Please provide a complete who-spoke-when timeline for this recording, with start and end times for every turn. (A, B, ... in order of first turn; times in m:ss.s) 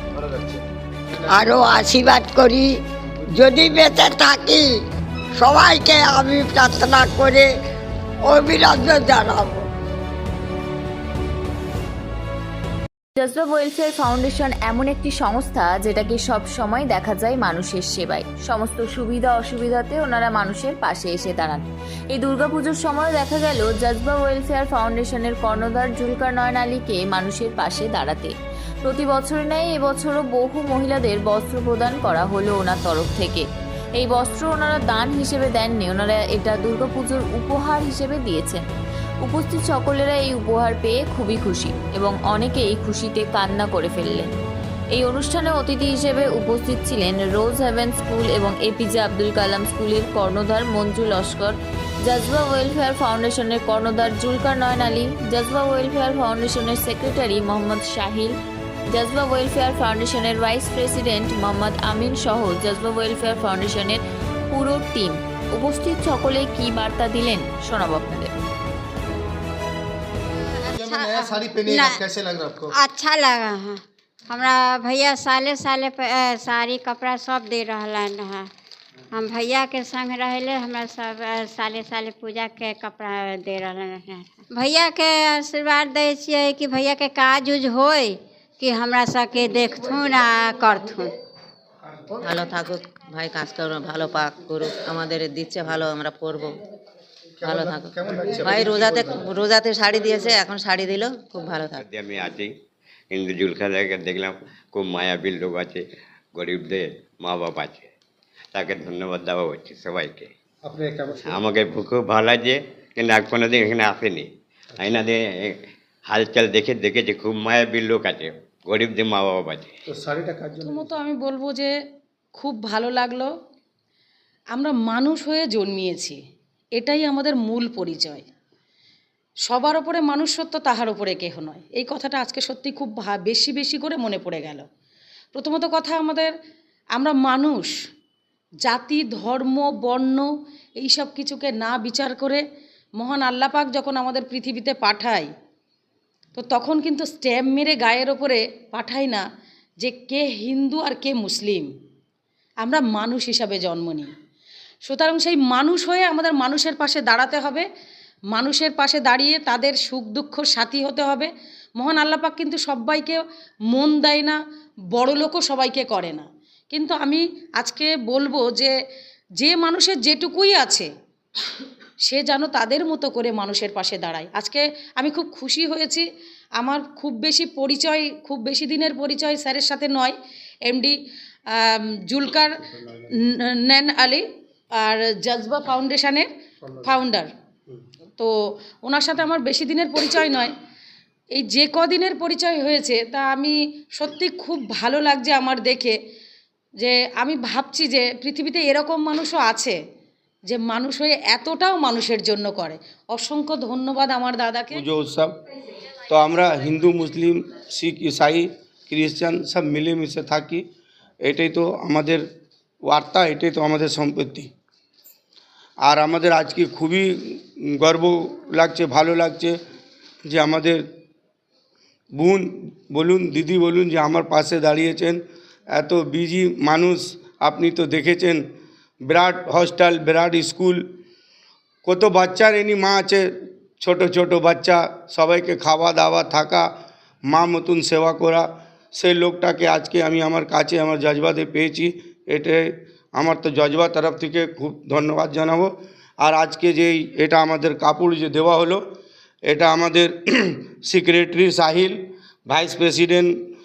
0:00.3-0:00.6 A
0:01.3-0:02.7 B
0:03.4-0:04.7 B
0:05.4-0:07.5 B
0:08.2-0:09.6 B
0:13.2-0:28.3 C
0:28.8-0:33.4 C
0:34.0-0:38.6 C
0:39.2-0:44.3 C
0:44.9-0:58.3 C
0:58.9-1:08.3 C
1:10.6-1:12.0 D
1:10.7-1:12.7 A
1:12.8-1:18.5 D
1:19.1-1:31.1 D
1:32.2-1:36.6 E
1:37.4-1:39.2 A
1:37.4-1:41.8 E
1:41.7-1:42.5 F
1:43.1-1:45.8 F
1:46.3-1:47.9 F
1:48.5-1:50.3 F
1:50.6-1:51.4 A
1:51.2-1:55.6 F
1:56.1-1:59.7 F
1:59.9-2:00.9 A
2:00.6-2:01.7 G
2:02.4-2:03.3 G
2:04.5-2:06.2 G
2:06.8-2:08.2 G
2:09.4-2:14.6 G
2:15.3-2:16.3 G
2:17.0-2:17.7 G
2:18.6-2:20.3 G
2:20.8-2:22.4 G
2:23.0-2:25.3 G
2:26.4-2:29.2 G
2:29.8-2:31.7 G
2:32.6-2:34.1 G
2:34.8-2:37.6 G
2:38.3-2:44.4 G
2:44.9-2:48.7 G
2:49.4-2:50.9 G
2:52.0-2:56.0 G
2:56.6-3:00.1 G
3:00.6-3:00.9 G
3:01.5-3:02.5 G
3:03.2-3:04.2 G
3:04.8-3:06.3 G
3:06.8-3:07.3 G
3:08.8-3:10.5 G
3:11.3-3:16.0 G
3:16.8-3:19.8 G
3:20.5-3:24.8 G
3:24.7-3:25.4 H
3:26.0-3:30.6 H
3:31.2-3:32.2 H
3:32.9-3:34.5 H
3:35.8-3:39.6 H
3:40.3-3:40.8 H
3:42.1-3:45.2 H
3:45.7-3:48.4 H
3:49.1-3:50.8 H
3:51.8-3:53.3 H
3:53.8-3:56.7 H
3:57.3-4:08.8 H
4:09.5-4:13.3 H